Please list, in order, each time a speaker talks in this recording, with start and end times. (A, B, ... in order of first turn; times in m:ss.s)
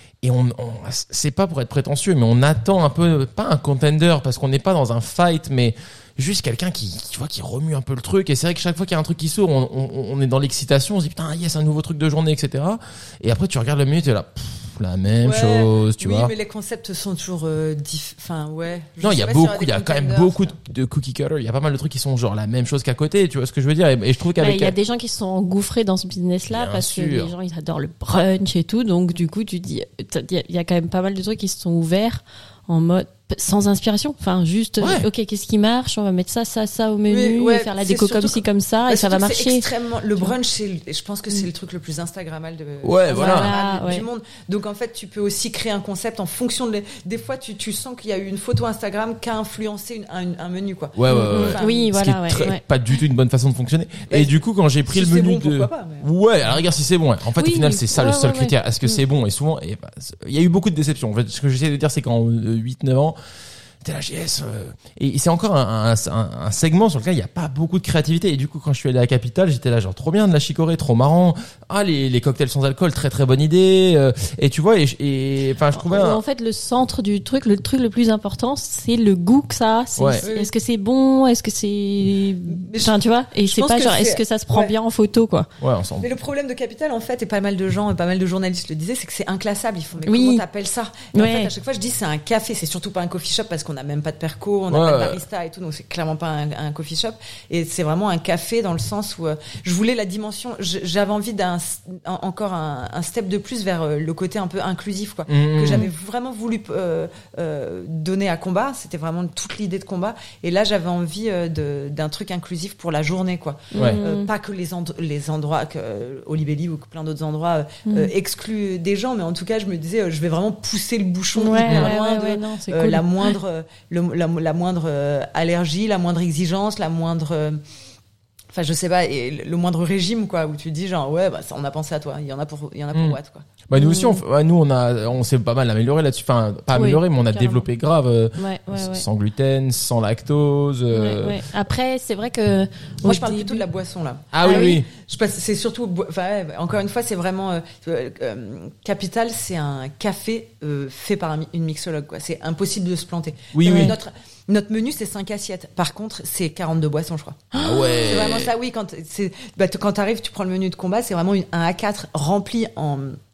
0:00.2-0:16.3 A
0:15.2-0:20.5 B
0:19.0-0:24.7 A
0:24.4-0:40.3 C
0:26.5-0:27.3 A
0:34.8-0:35.1 A
0:37.1-0:51.9 B
0:42.8-0:43.5 A
0:43.1-0:44.0 C
0:51.0-1:03.2 A
0:51.1-0:52.6 C
0:54.1-0:56.1 B
0:57.4-0:59.0 C
1:03.8-1:16.2 A
1:15.7-1:25.5 C
1:20.0-1:20.2 A
1:20.2-1:20.5 B
1:22.4-1:24.7 B
1:25.6-1:26.1 A
1:26.0-2:07.6 B
1:30.0-1:30.4 C
1:31.1-1:31.5 C
1:34.7-1:35.2 A
1:45.3-1:45.9 A
1:53.7-1:54.3 C
2:01.4-2:03.3 C
2:01.6-2:01.9 A
2:08.5-2:13.5 B
2:12.9-2:21.4 A
2:13.7-2:14.2 C
2:16.7-2:17.7 C
2:18.4-2:19.0 C
2:20.9-2:23.6 C
2:23.0-2:43.2 B
2:24.3-2:24.9 A
2:24.4-2:24.8 C
2:33.5-2:33.9 A
2:33.6-2:33.9 C
2:37.5-2:38.3 C
2:37.5-2:38.5 A